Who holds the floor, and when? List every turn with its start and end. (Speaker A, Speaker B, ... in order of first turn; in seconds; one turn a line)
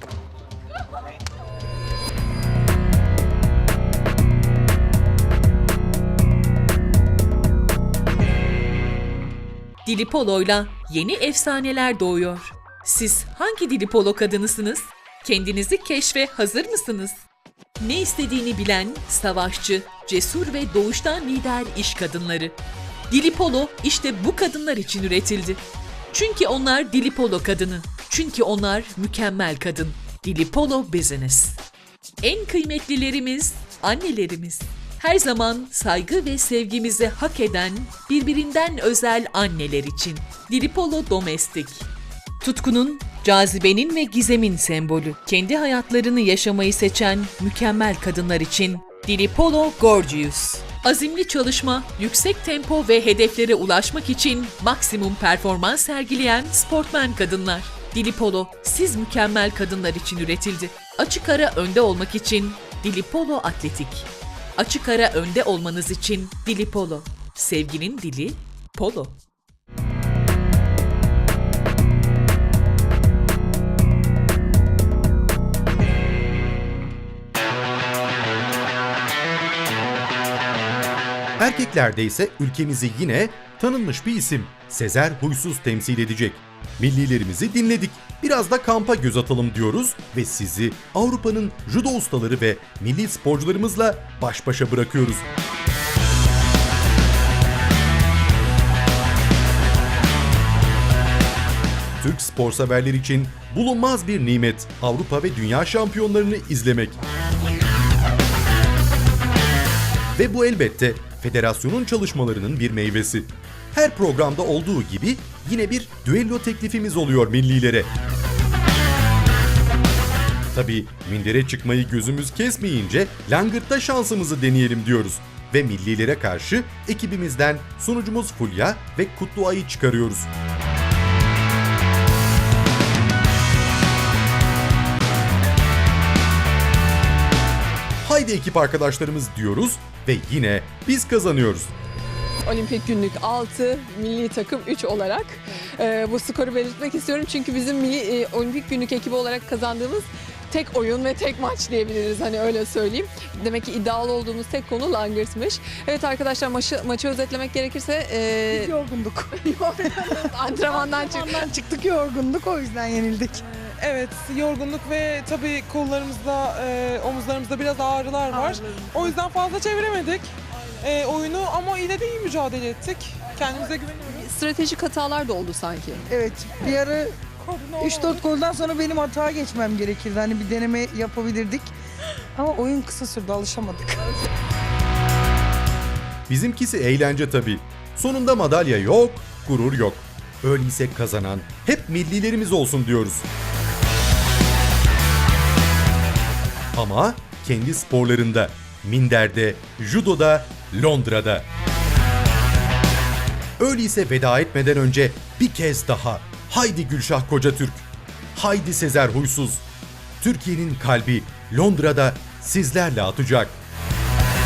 Speaker A: 9.8-17.2
Speaker A: 17.8-22.6
Speaker A: 23.1-31.6
Speaker A: 32.2-41.9
Speaker A: 42.4-69.2
Speaker B: 81.4-95.3
Speaker B: 102.0-107.0
Speaker B: 110.2-117.9
Speaker B: 120.5-130.3
Speaker B: 138.0-141.7
Speaker C: 142.5-158.7
Speaker D: 158.5-163.4
Speaker C: 159.4-161.5
Speaker E: 163.5-174.2
Speaker D: 168.6-168.9
Speaker C: 174.0-176.1
Speaker D: 176.1-177.2
Speaker E: 177.4-178.2
Speaker D: 177.8-181.7
Speaker D: 182.4-184.1
Speaker B: 186.3-193.3
Speaker B: 196.7-201.5
Speaker B: 203.6-209.6
Speaker B: 210.2-213.6